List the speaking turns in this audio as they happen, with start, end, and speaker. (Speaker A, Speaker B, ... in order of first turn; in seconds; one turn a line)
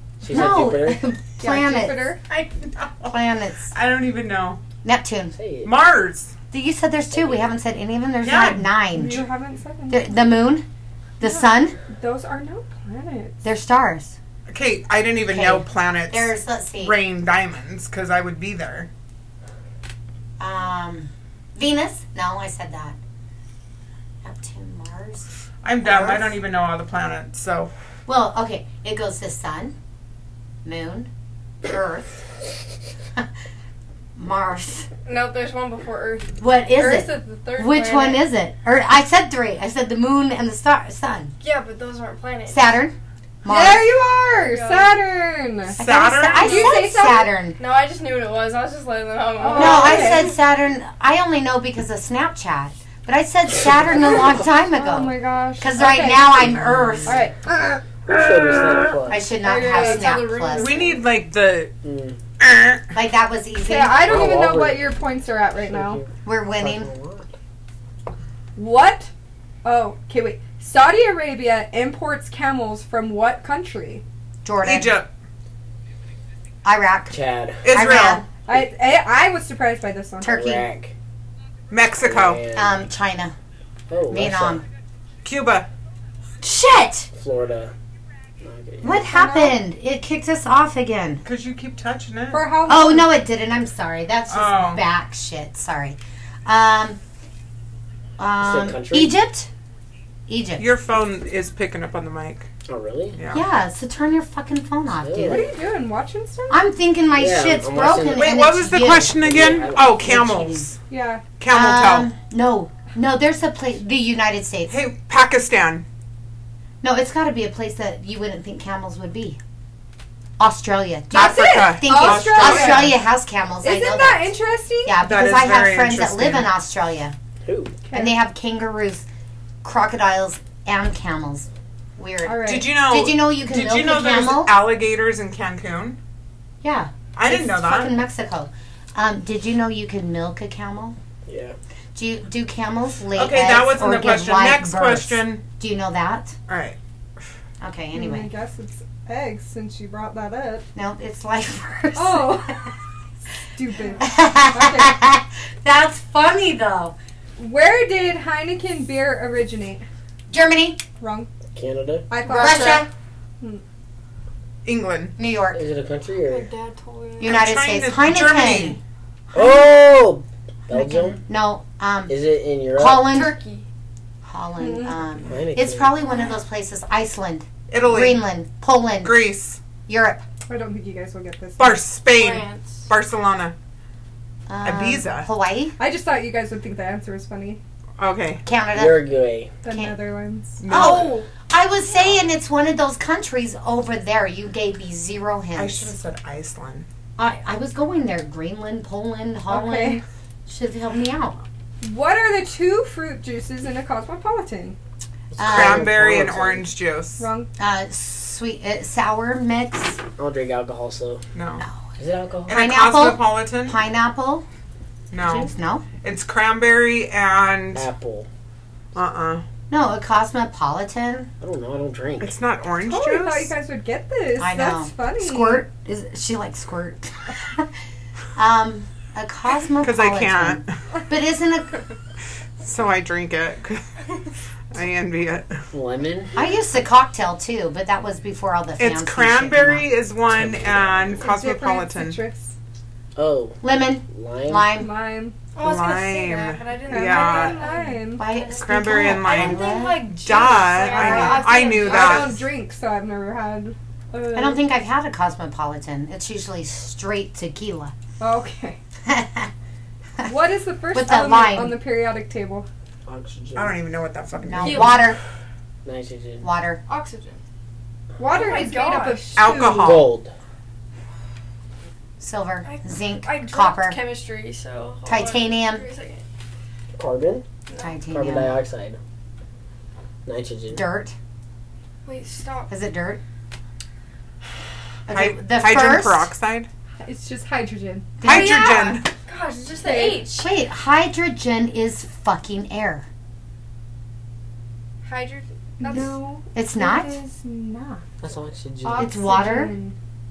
Speaker A: 0.2-1.0
Speaker B: 0.3-2.1
Speaker C: 1.4-2.2
Speaker D: 2.3-3.1
Speaker B: 3.1-3.7
Speaker D: 3.7-4.6
Speaker B: 4.8-5.3
Speaker A: 5.3-5.7
Speaker D: 5.6-6.3
Speaker B: 6.5-9.2
Speaker A: 7.1-7.5
Speaker D: 8.2-8.7
Speaker C: 8.9-10.1
Speaker B: 9.9-10.7
Speaker B: 11.2-11.8
Speaker C: 11.2-13.4
Speaker B: 13.4-14.2
Speaker D: 14.5-18.9
Speaker B: 15.3-17.0
Speaker B: 20.4-23.0
Speaker B: 24.2-25.3
Speaker D: 25.6-27.7
Speaker B: 25.8-26.4
Speaker B: 28.1-29.8
Speaker B: 30.6-31.1
Speaker B: 31.6-32.2
Speaker B: 34.2-34.9
Speaker E: 35.1-38.2
Speaker B: 36.4-41.3
Speaker E: 41.4-42.8
Speaker B: 42.5-43.9
Speaker C: 43.5-47.3
Speaker E: 44.3-45.0
Speaker D: 45.8-46.8
Speaker B: 45.8-47.6
Speaker E: 47.6-50.3
Speaker C: 49.4-50.3
Speaker B: 49.5-57.2
Speaker C: 54.4-56.5
Speaker A: 56.4-57.2
Speaker C: 57.1-57.8
Speaker A: 58.0-59.3
Speaker B: 59.1-60.8
Speaker C: 59.4-60.3
Speaker E: 59.4-61.0
Speaker D: 60.5-61.7
Speaker A: 61.8-62.2
Speaker D: 62.4-62.9
Speaker B: 62.9-64.2
Speaker C: 63.6-66.0
Speaker A: 64.0-65.0
Speaker A: 65.6-67.3
Speaker B: 66.2-66.9
Speaker C: 68.6-69.1
Speaker C: 69.6-74.0
Speaker B: 74.4-75.0
Speaker D: 74.6-75.1
Speaker B: 76.6-77.2
Speaker A: 77.1-77.7
Speaker D: 77.6-78.3
Speaker B: 77.7-78.2
Speaker C: 78.5-80.5
Speaker B: 80.2-80.6
Speaker A: 80.2-80.9
Speaker D: 81.7-82.5
Speaker A: 82.0-82.9
Speaker B: 82.5-83.3
Speaker A: 83.9-84.6
Speaker B: 84.1-84.6
Speaker D: 85.2-85.7
Speaker B: 86.4-87.1
Speaker A: 87.1-87.7
Speaker A: 88.4-89.1
Speaker B: 88.8-91.2
Speaker C: 88.9-89.6
Speaker D: 91.2-92.6
Speaker C: 92.3-93.1
Speaker B: 92.7-97.0
Speaker D: 94.3-94.8
Speaker B: 98.2-99.5
Speaker A: 98.4-99.1
Speaker B: 100.3-100.7
Speaker D: 100.6-102.5
Speaker A: 102.7-103.2
Speaker D: 103.2-103.5
Speaker B: 103.3-105.5
Speaker A: 104.9-105.5
Speaker C: 105.2-106.6
Speaker B: 106.5-109.1
Speaker A: 107.2-108.4
Speaker D: 108.1-110.8
Speaker A: 109.1-110.1
Speaker B: 109.9-110.7
Speaker C: 110.9-111.2
Speaker D: 111.4-112.1
Speaker B: 111.5-114.8
Speaker D: 114.7-115.8
Speaker B: 116.8-119.4
Speaker B: 120.4-124.3
Speaker C: 121.1-122.9
Speaker D: 121.1-123.0
Speaker C: 123.6-125.0
Speaker B: 124.8-127.2
Speaker D: 125.0-126.5
Speaker A: 127.5-127.8
Speaker C: 127.9-128.2
Speaker B: 127.9-129.1
Speaker B: 129.6-134.6
Speaker C: 132.2-132.7
Speaker D: 132.4-136.0
Speaker B: 136.6-141.0
Speaker D: 137.1-138.1
Speaker A: 141.3-141.6
Speaker B: 141.9-146.4
Speaker D: 143.2-145.5
Speaker D: 146.5-146.8
Speaker B: 147.6-148.3
Speaker C: 147.9-150.7
Speaker B: 150.8-152.7
Speaker C: 151.9-152.7
Speaker C: 153.5-154.9
Speaker B: 154.0-156.9
Speaker C: 157.4-159.8
Speaker B: 160.3-160.8
Speaker C: 161.0-161.3
Speaker A: 161.5-162.1
Speaker C: 162.1-162.9
Speaker B: 162.2-162.9
Speaker E: 162.3-162.8
Speaker D: 164.7-165.2
Speaker B: 165.2-165.6
Speaker A: 165.5-166.5
Speaker E: 166.2-167.4
Speaker B: 167.2-168.8
Speaker D: 167.2-168.8
Speaker A: 169.3-171.2
Speaker B: 171.2-172.2
Speaker A: 172.1-173.1
Speaker B: 172.8-173.4
Speaker E: 173.0-173.7
Speaker B: 174.2-179.3
Speaker A: 175.3-176.0
Speaker D: 177.7-178.2
Speaker D: 179.0-179.6
Speaker B: 179.8-180.2
Speaker C: 180.5-181.8
Speaker D: 181.6-183.6
Speaker E: 182.1-182.9
Speaker B: 184.5-185.8
Speaker D: 184.6-185.3
Speaker C: 185.8-187.6
Speaker D: 188.0-188.4
Speaker B: 188.4-189.0
Speaker A: 188.7-189.5
Speaker C: 189.6-190.7
Speaker B: 189.7-189.9
Speaker D: 190.6-191.2
Speaker B: 190.7-195.9
Speaker E: 190.7-191.1
Speaker D: 195.6-196.9
Speaker B: 197.2-201.4
Speaker C: 199.5-200.0
Speaker C: 201.8-204.8
Speaker A: 205.3-206.7
Speaker B: 205.4-205.9
Speaker D: 205.4-207.3
Speaker C: 207.2-207.5
Speaker B: 207.6-210.0
Speaker A: 210.2-211.2
Speaker D: 211.3-211.6
Speaker A: 212.0-212.6
Speaker D: 212.5-213.8
Speaker B: 212.5-214.4
Speaker D: 215.1-217.9
Speaker B: 215.2-215.9
Speaker A: 217.7-218.3
Speaker D: 218.9-219.4
Speaker B: 219.7-221.3
Speaker A: 221.4-222.4
Speaker D: 222.2-223.5
Speaker C: 222.8-225.7
Speaker B: 224.4-227.7
Speaker B: 228.3-231.8
Speaker D: 229.8-230.7
Speaker D: 232.6-234.1
Speaker D: 234.7-235.6
Speaker A: 235.7-236.3
Speaker B: 236.3-239.9
Speaker D: 238.8-242.2
Speaker A: 240.3-241.2
Speaker C: 241.2-242.6
Speaker A: 243.2-244.7
Speaker B: 243.6-244.9
Speaker C: 244.8-245.3
Speaker E: 245.6-252.4
Speaker D: 245.6-247.6
Speaker C: 246.9-248.3
Speaker B: 248.2-250.1
Speaker D: 248.6-252.4
Speaker C: 250.9-254.6
Speaker B: 250.9-251.5
Speaker B: 254.3-257.9
Speaker C: 258.2-258.8
Speaker B: 259.1-259.5
Speaker C: 260.2-262.7
Speaker B: 260.9-261.8
Speaker A: 263.1-263.8
Speaker D: 263.6-265.1
Speaker B: 264.4-265.2
Speaker E: 264.6-265.1
Speaker A: 265.9-266.5
Speaker B: 266.4-266.8
Speaker E: 266.9-267.4
Speaker C: 268.2-270.0
Speaker E: 268.3-269.3
Speaker D: 269.4-270.1
Speaker A: 269.8-270.3
Speaker B: 272.2-274.0
Speaker E: 272.6-276.2
Speaker B: 275.1-275.9
Speaker A: 277.0-277.4
Speaker E: 277.7-277.9
Speaker B: 277.8-278.6
Speaker A: 278.1-279.0
Speaker A: 280.3-280.9
Speaker B: 280.7-281.1
Speaker E: 282.1-282.7
Speaker B: 282.7-283.2
Speaker B: 285.1-286.3
Speaker D: 285.1-286.7
Speaker C: 287.0-288.6
Speaker B: 288.2-289.0
Speaker D: 288.2-289.1
Speaker E: 289.2-290.5
Speaker C: 289.9-290.3
Speaker B: 289.9-293.1
Speaker E: 295.0-296.1
Speaker C: 295.8-298.0
Speaker B: 296.5-297.2
Speaker A: 298.2-299.1
Speaker C: 298.8-299.9
Speaker B: 299.0-299.7